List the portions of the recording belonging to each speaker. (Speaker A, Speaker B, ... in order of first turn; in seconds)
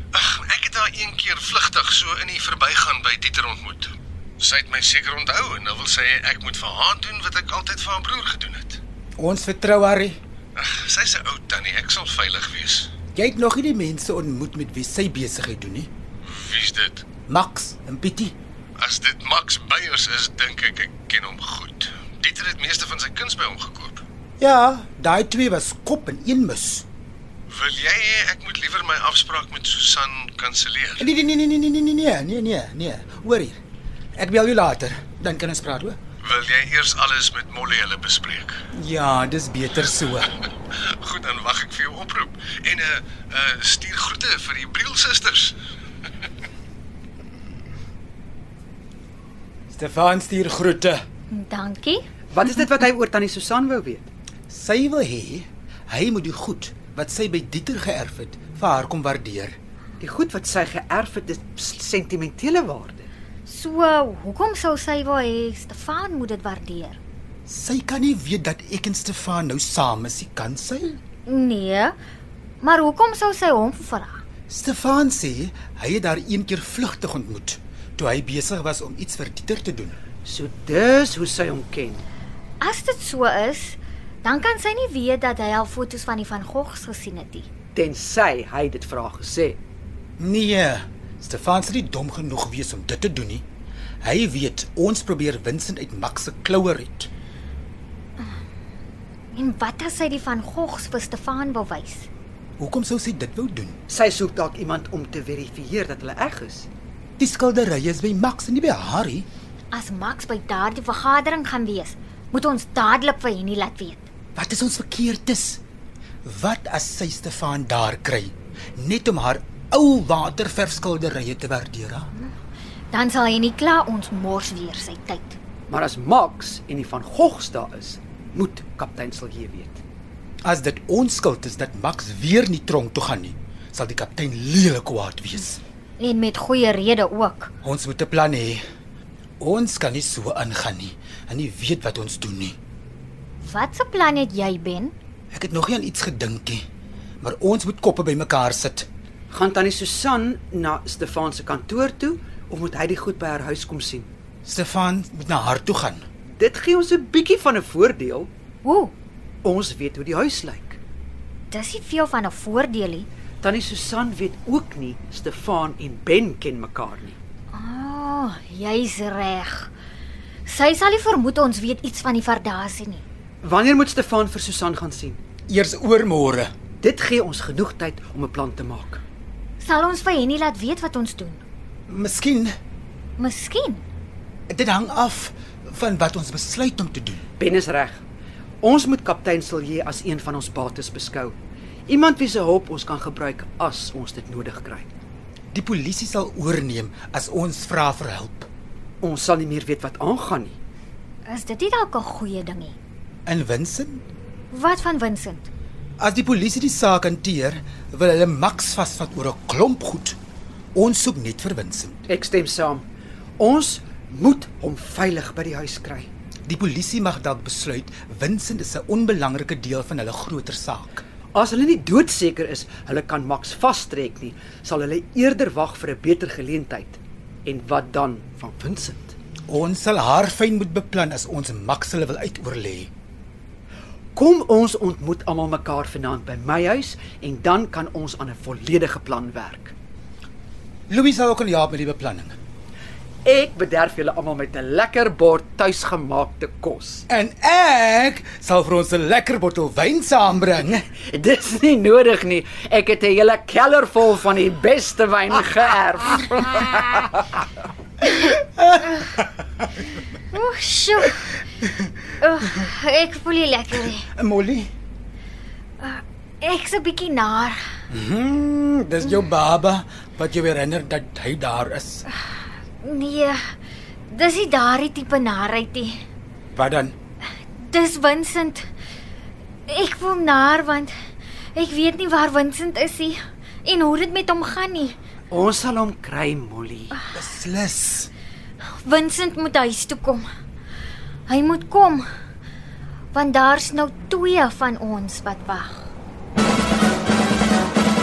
Speaker A: 0.1-8.8, 10.6-12.9, 16.2-17.1, 18.8-24.0, 27.5-31.1, 36.2-38.6, 40.7-45.6
Speaker B: 9.2-10.2, 13.1-15.9, 17.3-18.4, 24.4-26.9, 31.0-33.6, 34.2-36.0, 38.7-40.4, 49.7-51.0, 54.5-59.5, 67.5-71.0, 74.5-80.0, 90.2-93.4, 94.0-97.1, 102.6-103.8, 107.2-109.3, 114.3-115.6, 116.2-122.1, 130.4-135.6, 137.6-138.6, 139.4-142.6, 145.3-146.6, 147.2-148.9, 154.4-156.0, 175.5-176.5, 181.9-182.5, 184.5-187.2, 195.5-198.5, 203.3-204.0, 206.0-210.2, 210.8-212.0, 216.5-221.0, 229.5-232.9, 240.9-242.3, 247.1-250.8, 258.6-259.2, 264.1-264.7, 267.9-272.1, 276.5-276.9, 287.1-288.1
Speaker C: 51.3-52.0, 63.5-67.0, 71.3-72.0, 72.6-74.2, 82.6-87.5, 99.3-102.1, 109.7-114.1, 122.9-125.4, 136.0-137.5, 143.4-144.9, 158.6-158.9, 161.5-163.1, 167.5-169.7, 170.5-173.0, 179.6-181.4, 183.2-183.8, 201.3-202.8, 204.5-205.5, 260.3-261.2, 262.2-264.1, 265.8-267.6, 272.1-273.4, 274.1-276.0, 277.6-278.7, 279.7-280.9, 281.6-285.0, 288.9-290.2, 291.3-292.0, 293.1-295.9
Speaker D: 52.3-54.1, 60.0-63.1, 80.2-82.0, 87.8-89.6, 103.9-106.7, 125.7-129.8, 149.3-154.1, 156.3-158.3, 159.4-160.8, 163.4-167.2, 173.4-175.2, 176.8-179.0, 187.4-188.0, 188.6-191.3, 191.9-194.9, 199.0-200.6, 212.1-212.8, 213.4-216.1, 221.3-229.2, 234.2-239.7, 243.2-247.1, 251.1-257.3, 285.3-287.0